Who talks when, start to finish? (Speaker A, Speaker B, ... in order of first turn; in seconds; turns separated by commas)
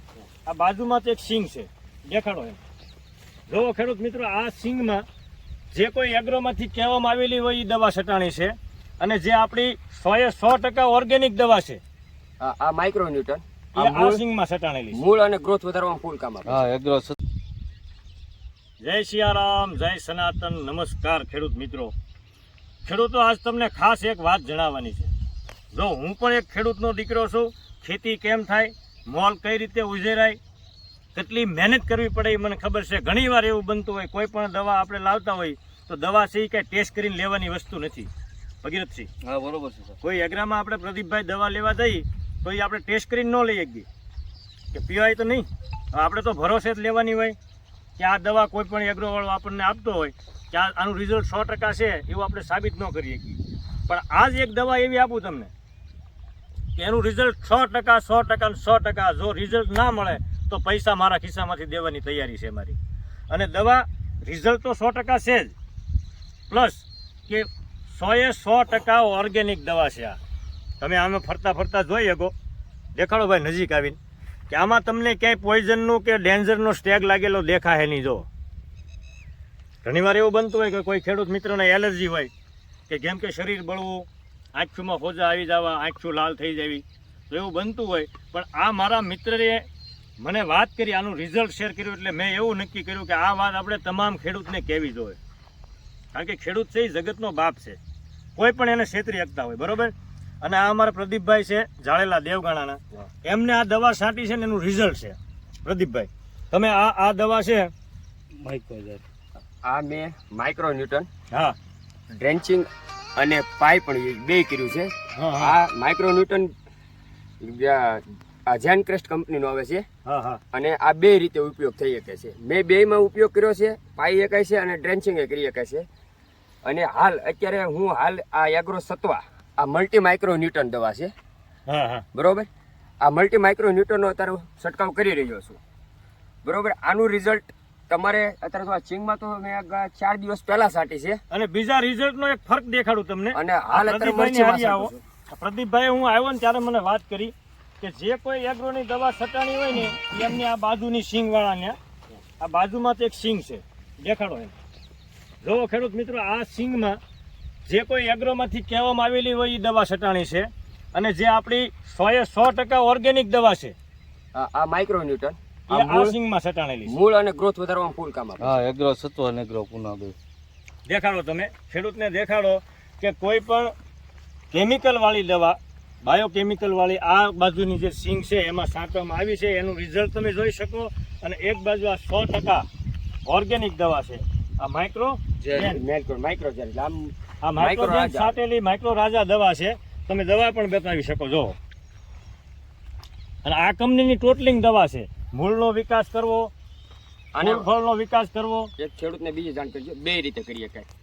Speaker A: 0.5-2.6, Speaker A: 3.5-5.0, Speaker A: 5.7-11.8, Speaker B: 12.4-14.2, Speaker A: 13.8-15.0, Speaker B: 14.9-16.7, Speaker C: 16.4-17.2, Speaker A: 18.8-21.9, Speaker A: 22.8-25.1, Speaker A: 25.7-30.4, Speaker A: 31.1-38.1, Speaker A: 38.6-39.1, Speaker C: 39.2-40.0, Speaker A: 40.0-43.9, Speaker A: 44.7-47.4, Speaker A: 48.0-55.5, Speaker A: 56.8-62.8, Speaker A: 63.3-65.5, Speaker A: 66.5-70.2, Speaker A: 70.8-72.3, Speaker A: 73.0-74.0, Speaker A: 74.5-78.3, Speaker A: 79.8-82.3, Speaker A: 82.9-89.6, Speaker A: 90.2-95.2, Speaker A: 96.1-97.8, Speaker A: 98.4-107.7, Speaker C: 108.4-109.0, Speaker B: 109.6-111.1, Speaker B: 112.2-116.5, Speaker A: 115.1-115.6, Speaker B: 117.4-119.8, Speaker A: 120.0-120.4, Speaker B: 120.5-125.8, Speaker B: 126.7-131.1, Speaker A: 131.7-132.0, Speaker B: 132.1-132.5, Speaker B: 133.0-135.6, Speaker B: 136.4-141.2, Speaker A: 141.3-151.8, Speaker B: 143.3-145.0, Speaker A: 152.4-154.5, Speaker A: 155.4-157.0, Speaker A: 157.7-163.7, Speaker B: 164.3-166.1, Speaker A: 165.7-166.9, Speaker B: 166.9-168.6, Speaker C: 168.4-170.1, Speaker A: 170.9-173.7, Speaker A: 174.5-182.6, Speaker A: 183.2-185.8, Speaker C: 185.4-185.7, Speaker B: 185.5-188.3, Speaker A: 187.4-191.6, Speaker A: 193.4-196.5, Speaker B: 197.3-197.7, Speaker A: 197.4-198.7, Speaker B: 198.8-200.9